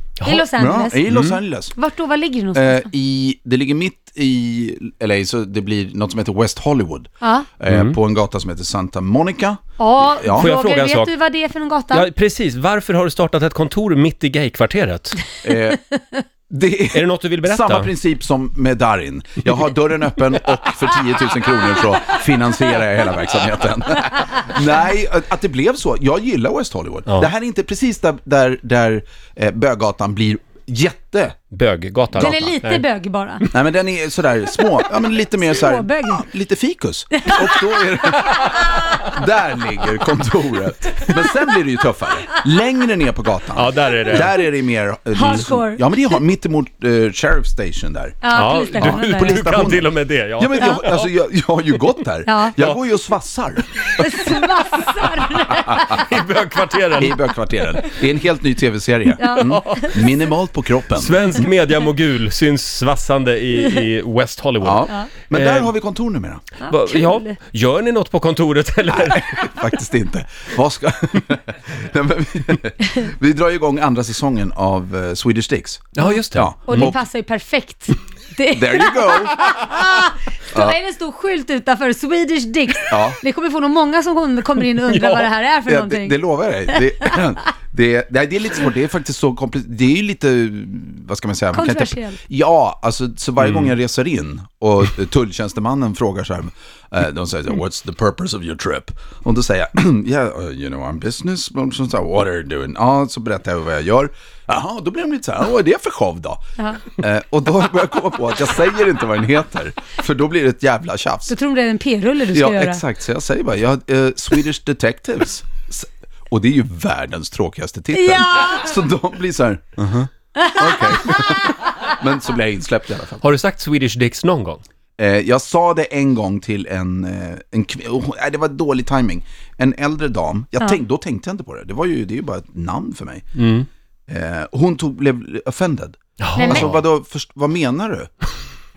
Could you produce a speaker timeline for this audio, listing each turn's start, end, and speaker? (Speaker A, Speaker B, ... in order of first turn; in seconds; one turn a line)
Speaker A: 0.2-0.5
Speaker B: 0.2-1.1
Speaker C: 0.6-1.7
Speaker A: 1.1-1.4
Speaker B: 1.7-2.9
Speaker C: 2.5-7.1
Speaker B: 7.2-7.5
Speaker C: 7.6-10.5
Speaker A: 7.7-8.0
Speaker B: 9.8-12.1
Speaker A: 10.3-11.1
Speaker A: 11.9-15.2
Speaker C: 15.4-15.8
Speaker C: 16.5-31.4
Speaker A: 16.9-17.9
Speaker A: 31.5-32.8
Speaker C: 32.1-32.5
Speaker B: 32.1-33.5
Speaker C: 33.5-54.1
Speaker B: 35.4-36.2
Speaker B: 37.1-39.0
Speaker A: 43.5-44.4
Speaker B: 45.1-46.1
Speaker B: 48.2-49.8
Speaker A: 48.3-51.1
Speaker B: 52.2-52.6
Speaker B: 53.9-56.1
Speaker C: 55.5-56.0
Speaker A: 55.8-57.2
Speaker C: 57.0-61.5
Speaker B: 59.2-60.1
Speaker A: 59.4-59.9
Speaker A: 60.9-65.7
Speaker C: 64.6-66.4
Speaker A: 66.6-69.6
Speaker B: 66.7-67.3
Speaker C: 68.9-77.0
Speaker A: 76.0-77.0
Speaker B: 76.7-87.2
Speaker C: 78.5-79.6
Speaker C: 82.9-83.2
Speaker A: 84.9-85.3
Speaker C: 85.7-111.3
Speaker B: 91.5-92.2
Speaker A: 93.4-93.7
Speaker B: 111.3-112.8
Speaker C: 112.3-123.3
Speaker B: 117.9-118.7
Speaker B: 120.3-121.3
Speaker A: 123.2-124.6
Speaker C: 125.0-133.3
Speaker A: 133.3-133.7
Speaker C: 134.1-138.1
Speaker A: 136.2-136.8
Speaker B: 136.4-136.8